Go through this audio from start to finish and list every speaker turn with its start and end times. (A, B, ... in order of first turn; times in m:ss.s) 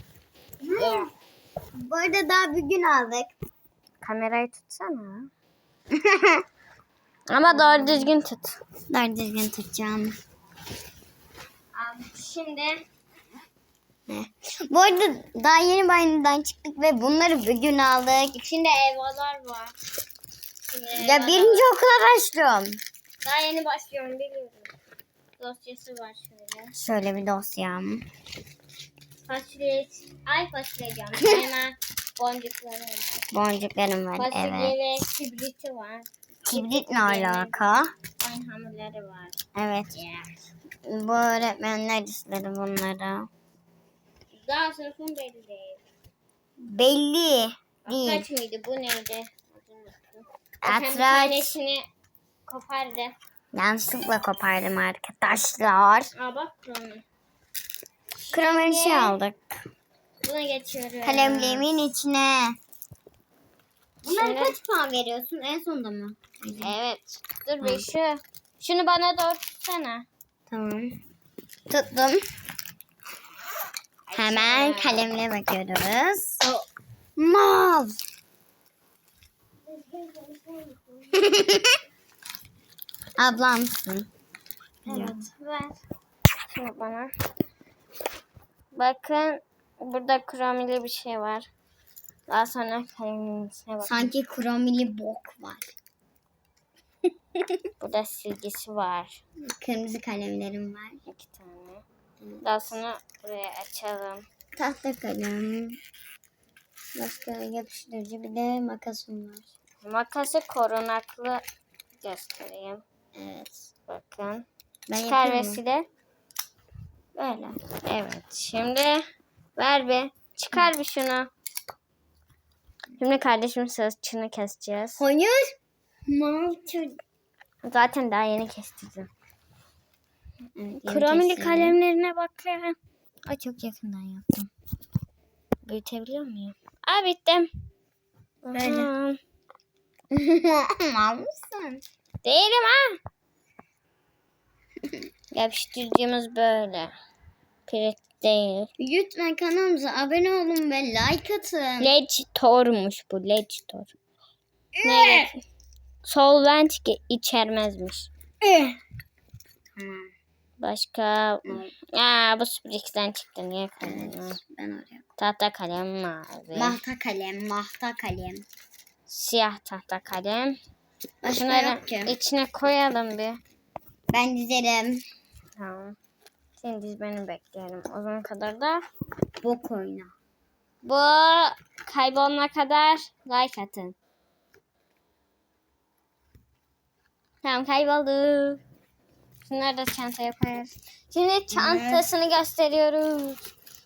0:00.6-0:01.1 A
0:00.8-0:01.1 B
0:01.8-0:03.3 A
0:04.0-0:05.3 B
0:05.9-0:06.4 A
0:07.3-0:08.6 B
0:07.5-0:08.1 A
0:08.9-0:10.2 A
0:11.7-0:12.8 B
0:14.1-0:18.4 A
0:18.3-0:19.7 B
0:20.7-0:21.6 B
0:21.0-0:22.8 A
0:23.2-0:24.7 B
0:25.4-0:26.7 B
0:26.8-0:28.0 A
0:29.2-0:33.2 B
0:33.3-0:34.8 A
0:34.2-0:37.6 B
0:36.4-0:37.9 A
0:38.2-0:39.4 B
0:39.5-0:40.0 A
0:39.9-0:40.4 B
0:40.8-0:43.3 A
0:44.3-0:45.8 B
0:46.6-0:48.3 A
0:47.8-0:51.8 B
0:50.6-0:51.5 A
0:52.5-0:53.1 B
0:53.5-0:56.1 A
0:56.1-0:57.0 B
0:58.3-0:59.2 B
0:58.3-0:59.4 A
1:00.2-1:01.7 B
1:01.0-1:02.6 A
1:04.0-1:06.7 A
1:04.1-1:04.5 B
1:06.6-1:10.1 B
1:10.5-1:11.0 A
1:11.7-1:12.2 A
1:14.1-1:15.0 B
1:14.1-1:16.4 A
1:17.2-1:18.0 A
1:19.7-1:21.2 B
1:21.1-1:21.8 A
1:23.2-1:24.1 A
1:24.8-1:25.3 A
1:24.9-1:25.8 B
1:26.5-1:27.1 B
1:28.7-1:31.5 B
1:32.3-1:34.1 B
1:33.8-1:35.7 A
1:37.3-1:37.7 A
1:37.8-1:39.2 B
1:39.4-1:41.0 A
1:41.0-1:41.8 B
1:42.4-1:44.2 B
1:44.5-1:45.8 A
1:46.9-1:49.4 A
1:49.8-1:51.4 B
1:52.0-1:52.8 B
1:53.1-1:53.7 A
1:53.9-1:54.4 B
1:54.9-1:55.6 A
1:55.0-1:55.8 B
1:57.2-1:59.0 B
1:59.6-2:01.3 B
2:03.0-2:05.0 B
2:05.0-2:05.5 A
2:06.1-2:07.0 A
2:07.6-2:09.1 B
2:10.6-2:11.8 A
2:10.8-2:12.8 B
2:13.3-2:14.5 B
2:15.6-2:17.5 B
2:18.4-2:19.2 B
2:18.5-2:18.9 A
2:20.1-2:21.8 A
2:22.2-2:23.0 B
2:25.3-2:26.9 B
2:27.7-2:28.7 B
2:28.8-2:31.9 A
2:31.8-2:33.9 B
2:34.8-2:35.3 A
2:34.8-2:35.4 B
2:36.0-2:38.1 B
2:38.4-2:38.8 A
2:39.8-2:40.1 A
2:40.6-2:44.4 B
2:41.4-2:41.7 A
2:43.8-2:45.0 A
2:45.2-2:46.8 B
2:46.5-2:48.4 A
2:49.1-2:50.6 B
2:51.2-2:52.2 A
2:51.3-2:53.4 B
2:54.1-2:55.0 A
2:55.6-2:55.9 B
2:56.6-2:58.8 B
2:59.4-3:00.1 A
3:00.8-3:03.9 B
3:07.4-3:08.6 B
3:09.5-3:13.4 B
3:11.5-3:12.0 A